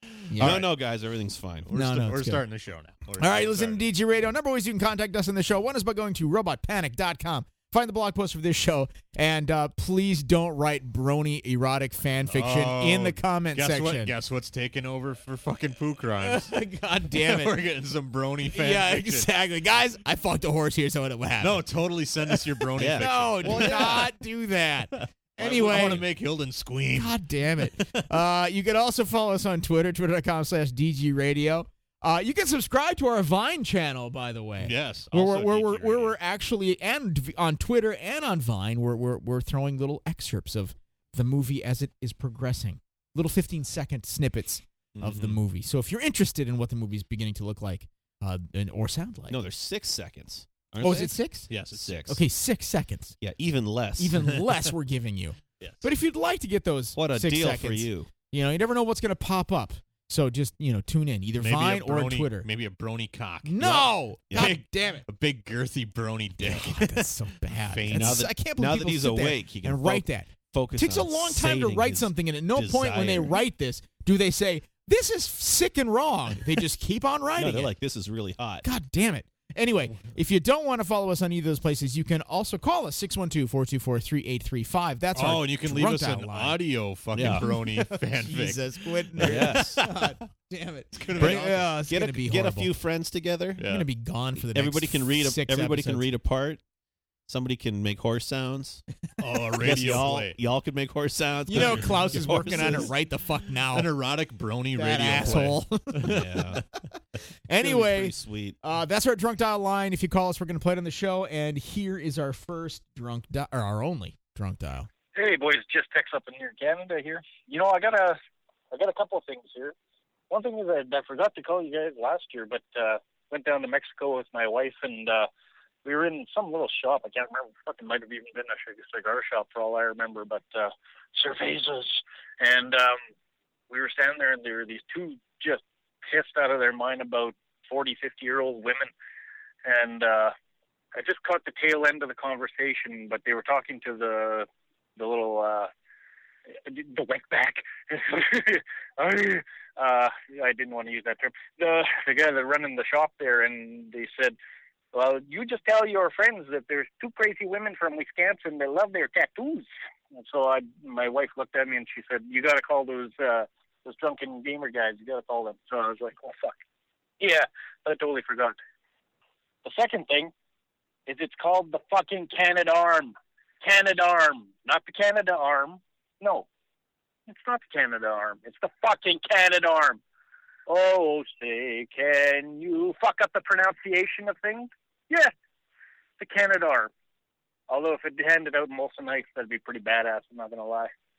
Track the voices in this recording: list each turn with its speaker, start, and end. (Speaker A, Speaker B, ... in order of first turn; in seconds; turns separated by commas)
Speaker A: 0.3-0.7, Speaker B: 0.4-0.7, Speaker C: 0.4-1.7, Speaker B: 1.7-3.9, Speaker A: 1.7-2.4, Speaker A: 3.2-14.1, Speaker B: 12.3-16.6, Speaker A: 16.2-17.6, Speaker B: 17.1-19.3, Speaker A: 18.5-21.7, Speaker B: 21.4-24.1, Speaker A: 22.3-26.1, Speaker C: 22.8-24.1, Speaker B: 25.0-28.1, Speaker A: 26.9-49.4, Speaker B: 34.6-36.2, Speaker C: 45.0-45.3, Speaker B: 45.0-45.3, Speaker C: 49.3-52.2, Speaker A: 50.8-51.5, Speaker B: 51.5-52.0, Speaker A: 52.1-53.2, Speaker C: 53.2-54.2, Speaker A: 54.0-62.5, Speaker C: 57.0-58.1, Speaker B: 61.4-68.2, Speaker A: 63.5-65.0, Speaker C: 63.6-64.6, Speaker A: 66.4-77.7, Speaker C: 67.9-73.4, Speaker C: 77.4-78.7, Speaker A: 78.6-86.6, Speaker B: 85.2-90.1, Speaker C: 87.2-87.5, Speaker A: 87.2-92.7, Speaker C: 89.2-89.8, Speaker B: 90.9-91.6, Speaker C: 91.2-93.6, Speaker B: 93.6-93.9, Speaker A: 93.6-96.1, Speaker C: 94.5-96.6, Speaker C: 97.3-98.8, Speaker B: 99.2-100.4, Speaker C: 99.6-102.9, Speaker A: 101.5-103.9, Speaker B: 101.6-102.0, Speaker B: 103.7-106.6, Speaker A: 104.8-106.2, Speaker C: 106.0-106.6, Speaker A: 107.5-114.9, Speaker C: 107.6-108.6, Speaker D: 115.2-118.2, Speaker D: 118.7-119.8, Speaker D: 120.3-125.3, Speaker D: 125.8-133.0, Speaker D: 133.7-138.9, Speaker D: 139.7-140.3, Speaker D: 140.9-145.7, Speaker D: 146.7-154.4, Speaker D: 154.9-166.6, Speaker D: 167.2-168.6, Speaker D: 169.7-170.3, Speaker D: 171.1-176.5, Speaker D: 177.3-180.0, Speaker D: 180.7-185.3, Speaker D: 186.2-186.9, Speaker D: 187.7-190.9